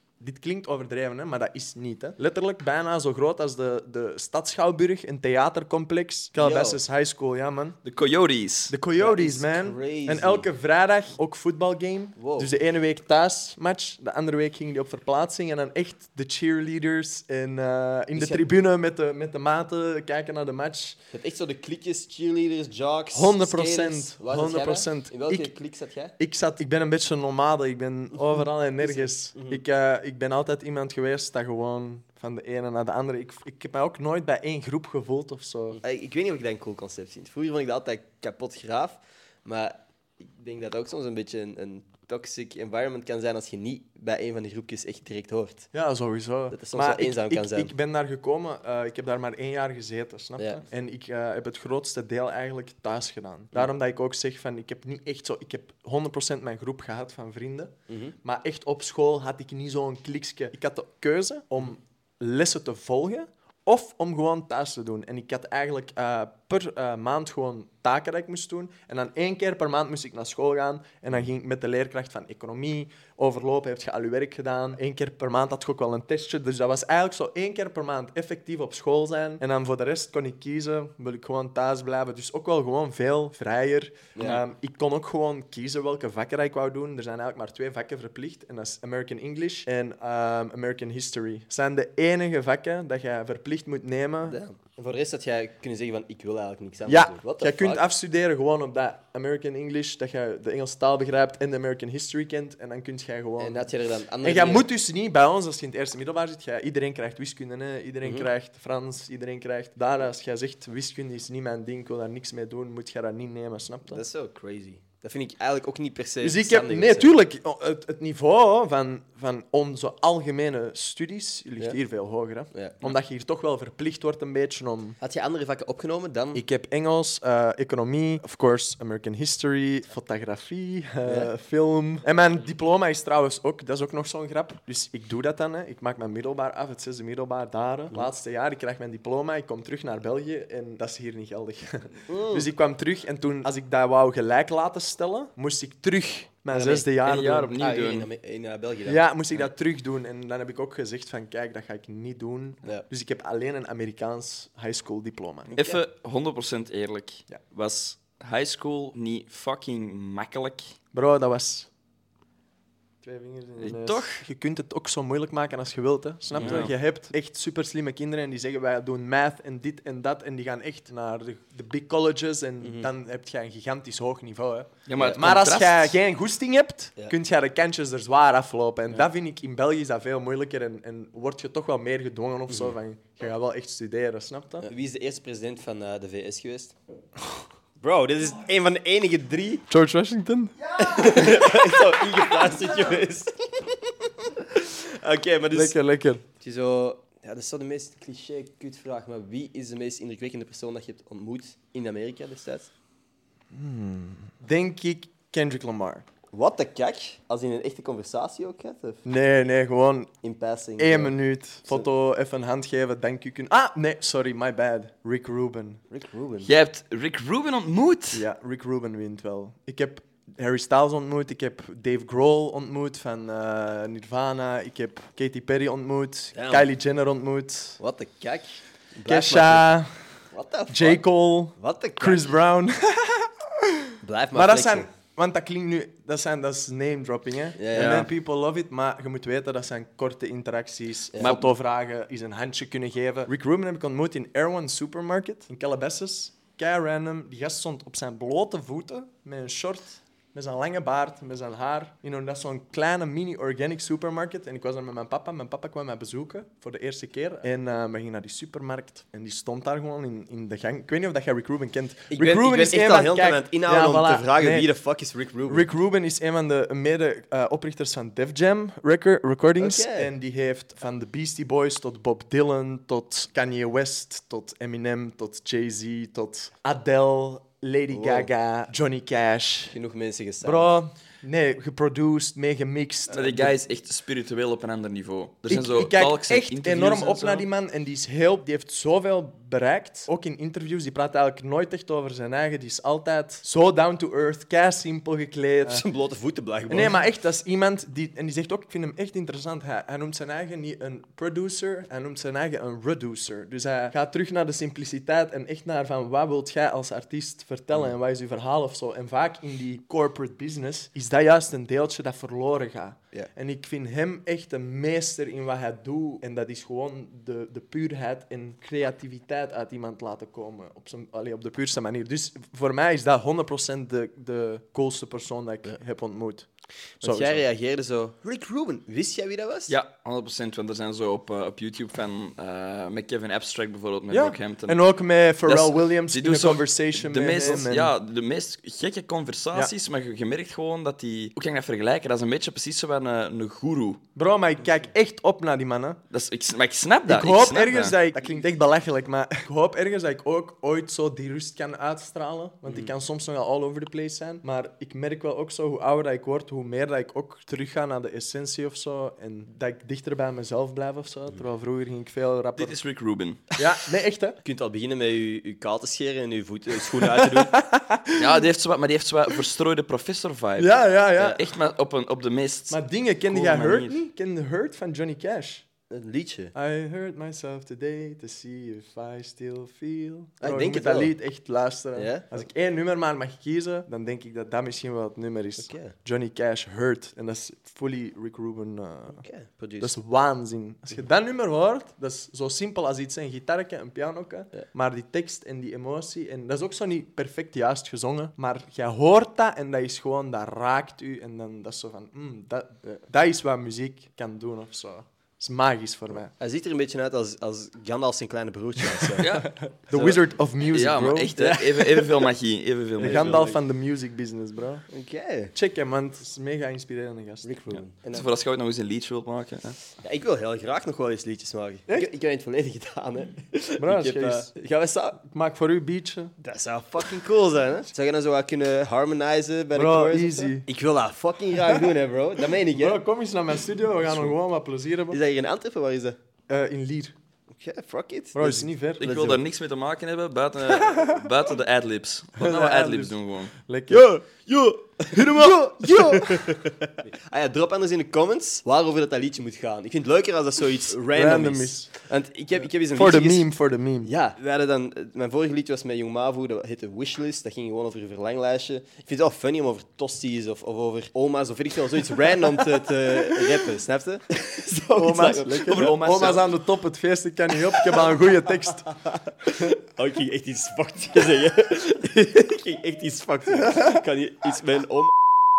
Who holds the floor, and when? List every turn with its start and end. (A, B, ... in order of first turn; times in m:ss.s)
0:00.2-0:07.8 A
0:06.4-0:06.8 B
0:07.8-0:08.7 C
0:08.7-0:21.0 A
0:09.0-0:10.5 B
0:12.2-0:12.5 B
0:18.1-0:18.4 B
0:21.1-0:26.1 B
0:23.1-0:25.5 A
0:26.2-0:35.8 A
0:28.8-0:29.6 B
0:35.8-0:45.7 B
0:45.7-1:34.4 A
0:46.5-0:47.7 B
0:50.4-0:50.6 B
0:57.9-0:58.1 B
1:24.1-1:24.4 B
1:34.3-1:37.8 B
1:36.8-1:43.7 A
1:43.4-1:44.7 B
1:44.2-1:54.0 A
1:48.0-1:48.3 B
1:53.9-1:57.1 B
1:56.2-2:05.0 A
2:02.5-2:02.9 B
2:05.0-2:06.4 B
2:06.3-2:27.6 A
2:11.0-2:11.3 B
2:22.1-2:22.5 B
2:26.5-2:26.9 B
2:27.0-2:28.1 C
2:27.6-2:29.0 B
2:28.8-2:35.5 A
2:35.5-2:35.8 B
2:35.6-2:40.7 C
2:40.9-2:41.7 A
2:43.0-3:04.7 A
2:43.6-2:44.0 C
2:43.7-2:44.2 B
2:46.3-2:46.7 B
2:46.3-2:46.7 C
2:52.6-2:52.9 B
2:54.9-2:55.9 C
3:02.5-3:02.7 B
3:04.6-3:06.7 B
3:07.8-3:09.7 B
3:09.7-3:11.8 A
3:10.7-3:13.5 B
3:14.4-3:15.8 B
3:15.5-3:16.2 A
3:16.4-3:22.7 B
3:23.5-3:26.0 A
3:26.3-3:29.0 B
3:29.0-3:30.1 A
3:30.2-3:31.2 B
3:30.8-3:35.8 A
3:35.9-3:36.5 B
3:36.4-3:38.2 C
3:38.1-3:47.8 A
3:46.3-3:46.7 B
3:47.8-3:49.7 B
3:49.1-3:50.1 A
3:50.3-3:51.0 B
3:50.7-4:24.7 A
3:51.5-3:52.3 B
3:54.0-3:54.9 B
3:57.6-3:58.0 B
3:57.7-3:58.1 C
4:01.1-4:01.4 B
4:01.2-4:01.5 C
4:22.1-4:25.7 B
4:25.5-4:39.7 A
4:29.6-4:30.1 B
4:37.9-4:38.3 B
4:39.7-4:40.7 B
4:40.4-4:43.6 A
4:43.1-4:47.4 C
4:45.5-4:55.8 A
4:55.6-4:57.0 B
4:56.7-5:26.5 A
5:27.0-5:27.4 A
5:27.0-5:29.7 B
5:29.7-5:34.8 C
5:34.1-5:37.9 A
5:35.4-5:44.0 C
5:44.1-5:46.0 A
5:46.1-5:47.9 C
5:47.0-6:02.8 A
6:02.6-6:03.6 C
6:03.6-6:04.4 A
6:04.4-6:07.6 B
6:06.9-6:08.4 A
6:08.1-6:13.9 C
6:10.6-6:11.4 A
6:12.7-6:15.7 A
6:15.9-6:16.5 B
6:16.5-6:29.2 A
6:20.4-6:21.1 B
6:21.9-6:22.3 B
6:25.6-6:25.9 B
6:29.1-6:30.0 B
6:29.8-6:46.3 A
6:46.4-6:49.3 B
6:48.9-6:51.6 A
6:49.2-6:49.5 C
6:49.9-6:50.2 B
6:50.7-6:53.4 C
6:51.4-6:52.2 B
6:53.0-6:53.6 B
6:53.0-6:54.8 A
6:54.9-6:55.5 B
6:55.5-6:57.5 A
6:57.4-6:58.3 B
6:58.1-6:59.8 C
7:00.0-7:05.2 B
7:03.8-7:04.5 A
7:05.2-7:06.3 A
7:06.4-7:13.0 B
7:09.7-7:10.6 A
7:11.6-7:11.9 A
7:12.6-7:15.2 A
7:15.1-7:16.2 B
7:16.5-7:17.1 A
7:17.5-7:19.3 B
7:18.3-7:19.4 A
7:19.0-7:23.5 C
7:20.7-7:21.2 A
7:22.4-7:24.2 A
7:23.9-7:33.5 B
7:25.1-7:26.7 A
7:31.1-7:31.9 A
7:32.9-7:34.1 A
7:34.0-7:46.0 B
7:43.1-7:43.4 A
7:44.9-7:48.9 A
7:45.7-7:46.5 C
7:47.9-7:48.2 B
7:48.9-7:55.1 B
7:53.7-7:54.0 A